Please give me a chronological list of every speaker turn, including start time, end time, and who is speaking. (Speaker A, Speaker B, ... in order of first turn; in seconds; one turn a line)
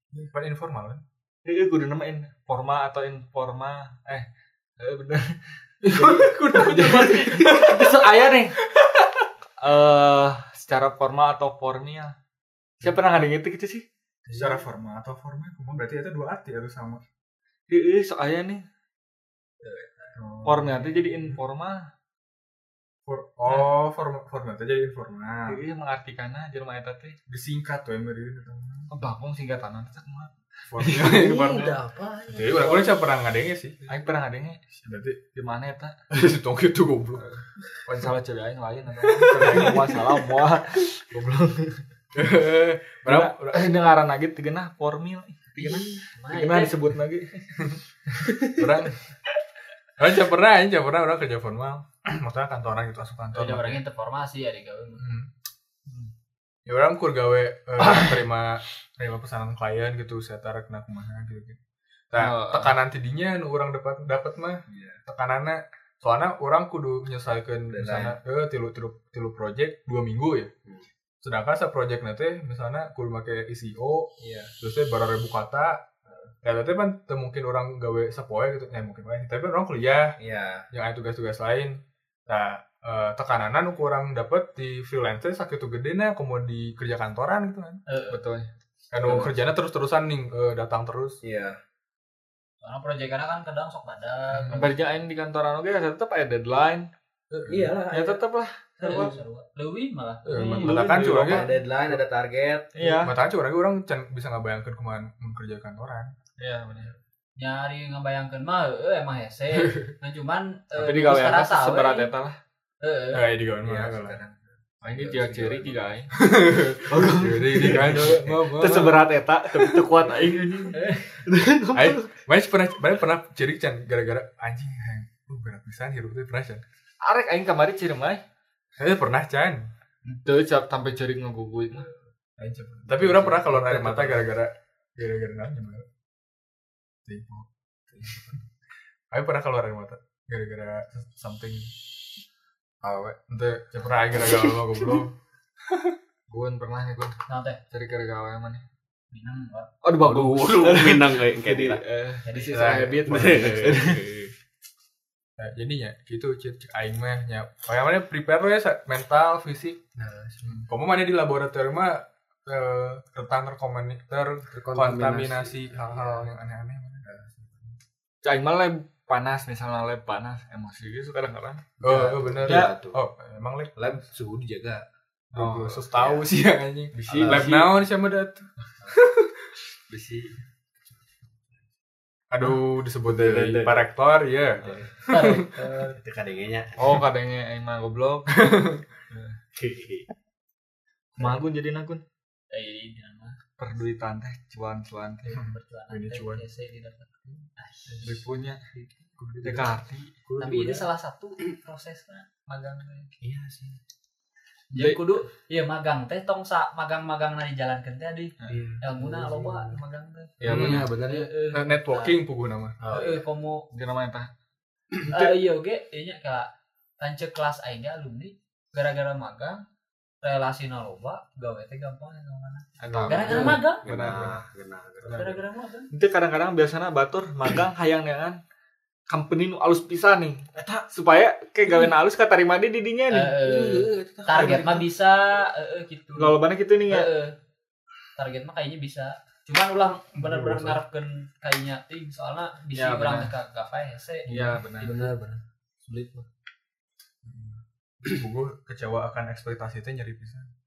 Speaker A: 0.1-1.0
Speaker B: 1.4-4.2
Speaker B: 4.8-8.6
Speaker A: 5.8-8.0
Speaker A: 8.7-9.2
Speaker B: 9.6-12.1
Speaker B: 12.8-13.8
Speaker A: 14.3-17.0
Speaker B: 17.7-18.6
Speaker C: 19.6-20.1
Speaker A: 20.1-21.4
Speaker B: 20.4-21.8
Speaker A: 23.1-25.6
Speaker B: 23.4-23.7
Speaker B: 25.4-27.1
Speaker A: 27.3-28.9
Speaker B: 28.9-31.2
Speaker A: 30.7-33.8
Speaker C: 31.0-33.0
Speaker B: 33.9-34.6
Speaker A: 34.7-35.2
Speaker B: 35.3-36.0
Speaker A: 36.1-37.2
Speaker B: 37.1-41.8
Speaker A: 39.1-39.9
Speaker A: 42.1-43.7
Speaker B: 43.0-48.5
Speaker C: 45.5-46.0
Speaker D: 45.6-46.7
Speaker A: 48.5-49.0
Speaker A: 50.0-53.8
Speaker D: 53.3-55.0
Speaker A: 55.0-55.3
Speaker B: 55.9-56.1
Speaker A: 56.6-61.6
Speaker B: 57.8-58.2
Speaker A: 62.1-70.5
Speaker B: 62.1-62.8
Speaker C: 64.7-65.0
Speaker C: 67.7-68.2
Speaker A: 71.2-75.8
Speaker C: 74.2-74.5
Speaker A: 76.4-80.2
Speaker C: 80.2-80.7
Speaker A: 80.7-87.8
Speaker D: 87.9-88.2
Speaker B: 88.1-88.5
Speaker A: 88.9-91.2
Speaker C: 89.0-89.3
Speaker C: 91.2-91.6
Speaker D: 92.6-94.7
Speaker B: 94.5-96.9
Speaker A: 97.3-97.8
Speaker C: 97.5-98.2
Speaker B: 97.9-99.1
Speaker C: 98.8-99.2
Speaker D: 98.8-100.6
Speaker A: 100.2-101.5
Speaker B: 100.3-101.5
Speaker C: 100.3-102.9
Speaker B: 102.7-103.1
Speaker A: 103.0-106.1
Speaker B: 106.4-106.9
Speaker D: 107.4-112.1
Speaker A: 109.6-109.9
Speaker B: 110.8-112.3
Speaker D: 112.8-113.2
Speaker A: 113.1-114.2
Speaker C: 113.6-115.9
Speaker B: 114.8-116.1
Speaker A: 116.2-120.0
Speaker B: 116.9-122.1
Speaker D: 120.7-121.1
Speaker A: 121.7-126.6
Speaker B: 127.0-128.2
Speaker A: 128.8-129.7
Speaker B: 130.0-131.8
Speaker A: 132.4-135.8
Speaker B: 133.0-134.2
Speaker C: 133.1-134.0
Speaker A: 137.1-138.4
Speaker A: 139.1-141.7
Speaker C: 142.8-143.1
Speaker A: 143.1-145.1
Speaker C: 144.2-145.0
Speaker A: 145.7-145.9
Speaker B: 146.3-147.2
Speaker D: 147.3-147.6
Speaker B: 147.7-148.7
Speaker D: 149.1-149.7
Speaker B: 149.8-154.0
Speaker C: 150.0-151.8
Speaker D: 152.2-152.8
Speaker A: 152.5-153.8
Speaker C: 153.1-154.3
Speaker A: 155.4-159.8
Speaker C: 159.9-160.6
Speaker A: 160.4-167.1
Speaker C: 164.5-166.3
Speaker C: 167.0-167.7
Speaker B: 168.2-171.7
Speaker C: 171.8-173.0
Speaker A: 171.8-174.0
Speaker B: 172.4-172.7
Speaker C: 173.8-174.8
Speaker B: 175.3-175.9
Speaker A: 175.3-179.3
Speaker C: 175.9-176.3
Speaker B: 177.0-177.7
Speaker C: 177.0-177.5
Speaker B: 179.9-180.4
Speaker A: 182.3-185.5
Speaker C: 182.4-183.9
Speaker C: 184.6-187.0
Speaker D: 185.1-185.9
Speaker B: 186.8-188.5
Speaker A: 188.3-188.8
Speaker C: 189.5-190.1
Speaker B: 191.2-192.0
Speaker D: 192.5-193.4
Speaker B: 193.6-195.4
Speaker D: 195.3-198.2
Speaker A: 195.3-196.4
Speaker A: 197.9-198.2
Speaker B: 198.0-198.7
Speaker A: 199.2-200.8
Speaker B: 199.4-200.1
Speaker C: 200.3-200.8
Speaker D: 200.4-203.1
Speaker C: 203.2-203.8
Speaker B: 204.7-205.0
Speaker D: 204.7-212.1
Speaker C: 208.5-209.8
Speaker B: 210.4-210.9
Speaker C: 210.4-211.3
Speaker A: 210.4-210.9
Speaker A: 211.5-212.8
Speaker C: 212.8-213.2
Speaker D: 212.9-213.7
Speaker B: 213.7-214.3
Speaker D: 215.1-219.6
Speaker D: 220.2-223.8
Speaker B: 222.8-224.3
Speaker C: 222.8-225.4
Speaker B: 225.0-225.3
Speaker D: 225.1-225.9
Speaker B: 225.9-228.4
Speaker B: 229.1-233.4
Speaker D: 233.1-236.4
Speaker C: 233.4-234.9
Speaker B: 236.2-237.1
Speaker D: 236.9-237.3
Speaker D: 238.2-244.9
Speaker A: 240.2-240.8
Speaker B: 242.7-243.3
Speaker B: 244.3-244.9
Speaker C: 244.8-246.2
Speaker A: 247.2-250.5